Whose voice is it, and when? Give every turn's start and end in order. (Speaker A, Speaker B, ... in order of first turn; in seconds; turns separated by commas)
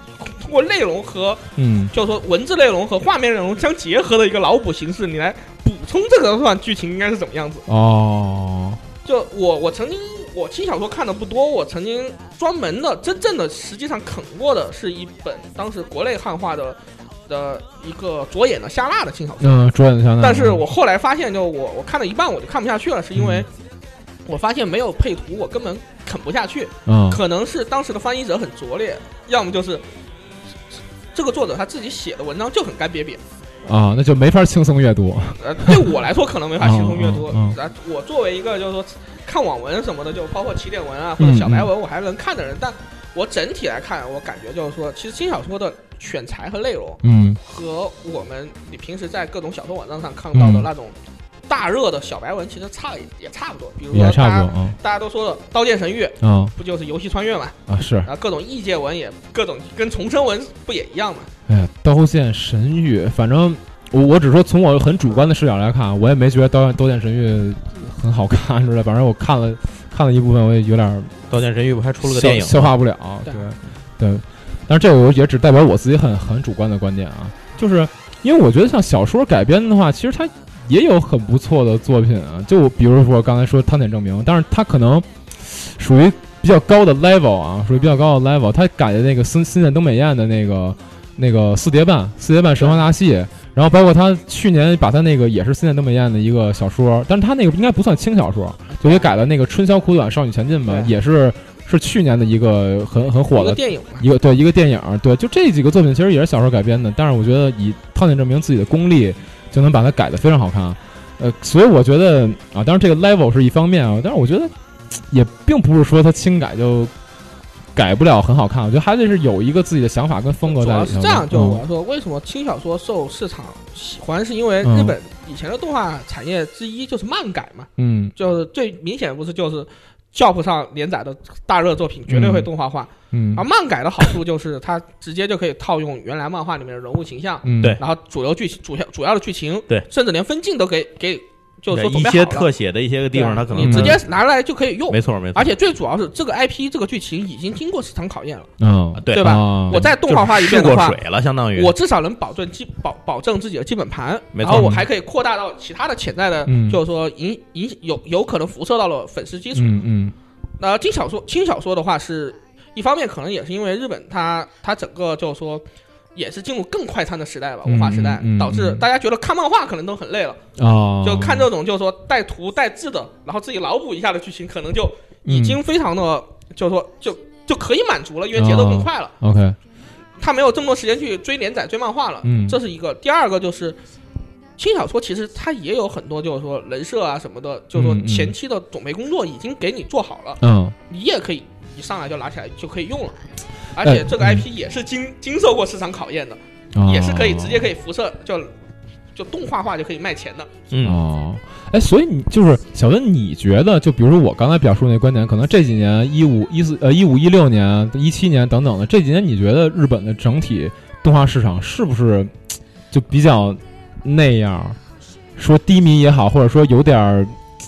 Speaker A: 0.2-7.7, Speaker B: 1.6-1.9, Speaker B: 7.7-8.8, Speaker A: 9.1-19.6, Speaker B: 19.4-20.7, Speaker A: 20.2-23.5, Speaker B: 23.1-23.5, Speaker A: 24.3-29.9, Speaker B: 26.9-27.2, Speaker A: 31.1-33.2, Speaker B: 33.6-35.9, Speaker A: 35.4-51.0, Speaker B: 36.6-37.6, Speaker B: 41.2-41.7, Speaker B: 47.0-47.4, Speaker B: 50.3-50.7, Speaker A: 51.5-61.3, Speaker B: 53.9-54.8, Speaker B: 56.2-56.5, Speaker B: 57.7-58.1, Speaker B: 61.5-71.2, Speaker C: 71.3-72.7, Speaker B: 72.0-114.5, Speaker A: 98.7-99.1, Speaker A: 100.7-100.9, Speaker A: 103.3-104.1, Speaker B: 115.1-116.9, Speaker B: 117.8-121.6, Speaker A: 120.5-142.5, Speaker B: 124.6-125.0, Speaker B: 127.8-128.1, Speaker B: 132.1-132.5, Speaker B: 133.1-133.4, Speaker B: 137.4-137.8, Speaker C: 141.7-144.0, Speaker A: 143.1-148.5, Speaker B: 143.6-144.0, Speaker C: 144.9-145.5, Speaker B: 148.6-149.9, Speaker C: 149.0-151.8, Speaker A: 149.1-151.0, Speaker A: 151.6-159.8, Speaker C: 154.3-154.8, Speaker B: 154.5-154.8, Speaker B: 156.5-156.8, Speaker B: 159.5-160.1, Speaker A: 160.6-170.4, Speaker B: 167.7-168.8, Speaker B: 170.6-171.5, Speaker A: 171.0-179.1, Speaker B: 175.3-175.6, Speaker B: 178.3-179.6, Speaker A: 180.2-183.8, Speaker B: 182.2-182.6, Speaker A: 184.6-193.2, Speaker B: 187.7-188.3, Speaker B: 190.4-190.8, Speaker A: 193.8-198.5, Speaker B: 193.8-194.4, Speaker B: 196.8-197.7, Speaker A: 199.2-200.5, Speaker C: 200.7-201.0, Speaker B: 200.8-212.3, Speaker B: 212.9-214.8, Speaker B: 215.4-217.4